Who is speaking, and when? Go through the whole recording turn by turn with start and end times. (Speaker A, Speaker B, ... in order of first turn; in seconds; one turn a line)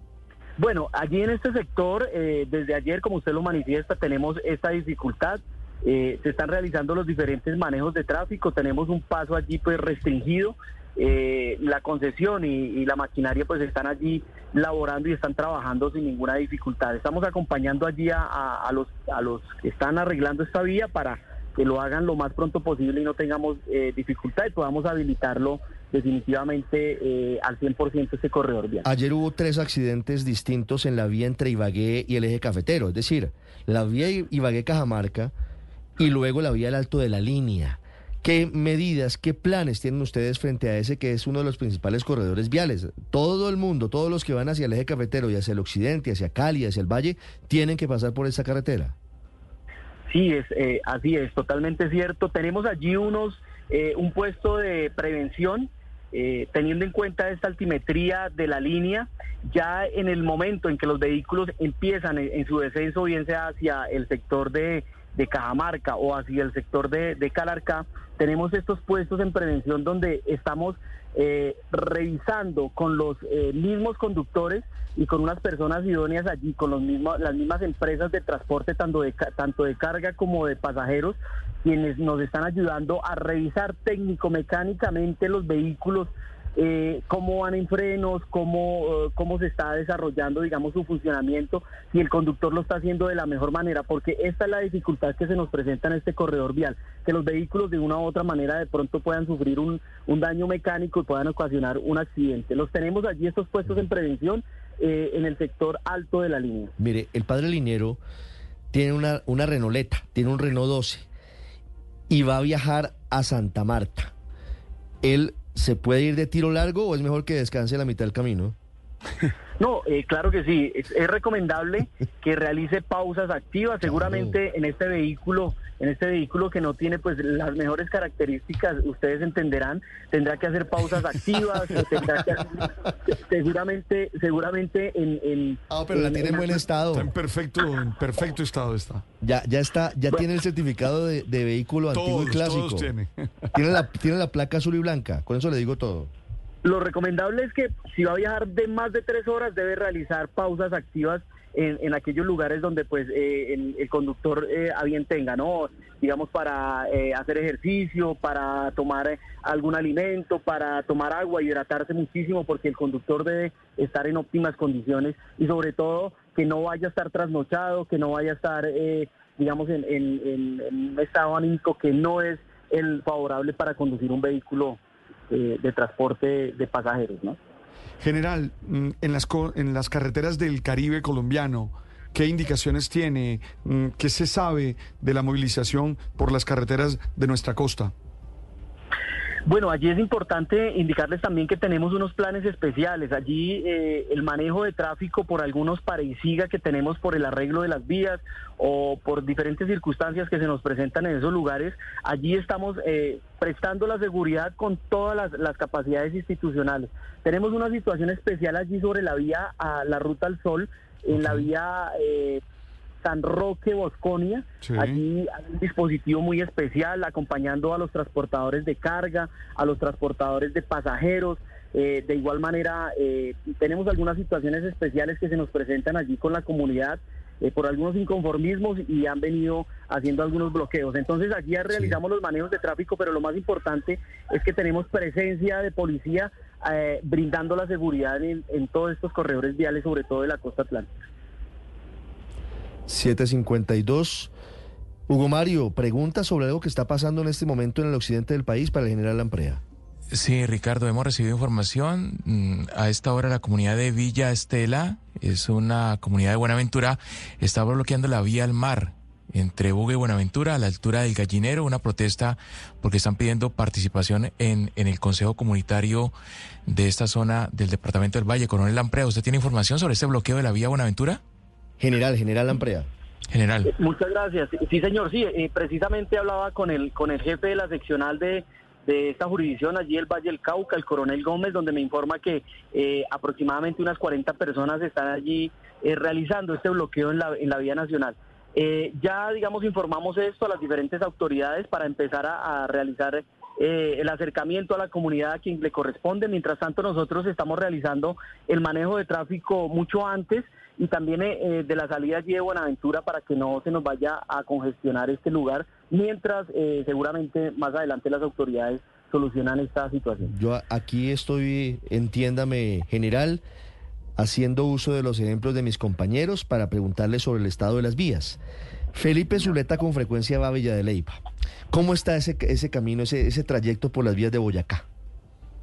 Speaker A: 0.6-28.9
Speaker B: 28.9-35.3
Speaker B: 36.0-49.0
Speaker A: 50.1-106.7
Speaker B: 106.8-108.0
Speaker B: 108.7-111.1
Speaker B: 112.1-114.1
Speaker B: 115.0-118.6
Speaker A: 119.6-136.6
Speaker B: 135.7-137.1
Speaker C: 136.9-139.0
Speaker B: 139.2-142.9
Speaker C: 141.9-143.5
Speaker B: 143.5-146.1
Speaker A: 146.6-177.4
Speaker C: 178.0-187.9
Speaker A: 189.5-212.4
Speaker A: 213.0-240.9
Speaker C: 214.6-215.0
Speaker B: 242.9-244.3
Speaker B: 245.1-249.6
Speaker D: 250.1-266.1
Speaker D: 266.7-271.2
Speaker B: 271.8-272.9
Speaker D: 273.3-273.7
Speaker A: 273.7-310.3
Speaker B: 310.2-313.4
Speaker B: 314.2-318.4
Speaker B: 318.9-321.2
Speaker B: 321.7-324.8